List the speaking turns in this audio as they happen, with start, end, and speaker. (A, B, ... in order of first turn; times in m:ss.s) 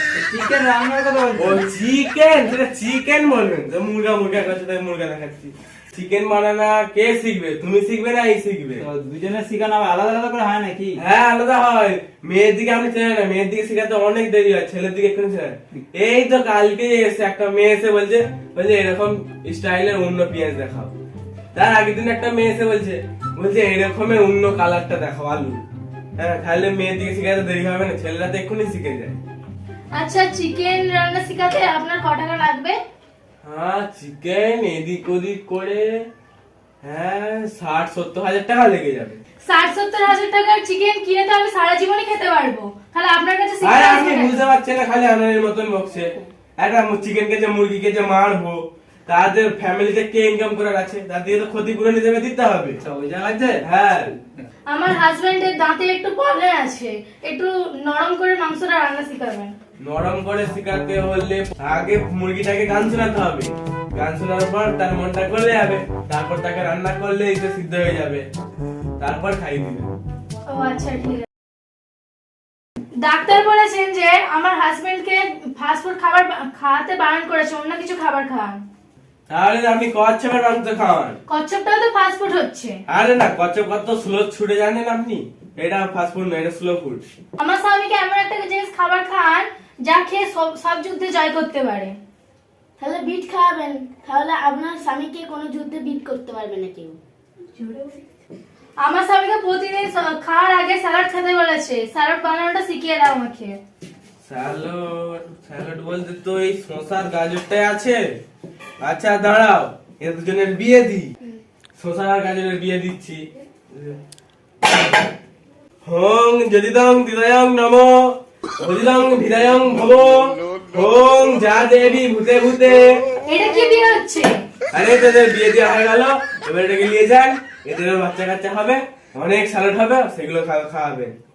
0:00.2-0:01.7 A
0:01.4-0:08.8 B
0:08.8-0:11.0 A
0:11.0-0:20.9 B
0:21.5-0:25.6 B
0:26.2-0:29.2 B
0:30.0-0:32.8 C
0:33.4-0:36.1 B
0:36.8-0:39.2 B
0:39.4-0:44.5 C
0:43.6-0:52.8 B
0:52.8-0:53.6 A
0:53.7-0:54.1 B
0:54.7-0:59.6 C
0:59.8-1:08.3 B
1:09.0-1:09.9 B
1:10.5-1:11.3 C
1:13.0-1:18.6 C
1:19.3-1:21.2 B
1:21.3-1:22.8 C
1:22.9-1:27.0 B
1:27.4-1:32.0 C
1:32.8-1:37.0 D
1:37.6-1:38.0 C
1:38.8-1:43.6 C
1:44.2-1:48.0 B
1:48.8-1:51.1 B
1:51.8-1:54.0 B
1:55.8-2:03.0 B
2:03.3-2:04.4 C
2:04.7-2:11.2 B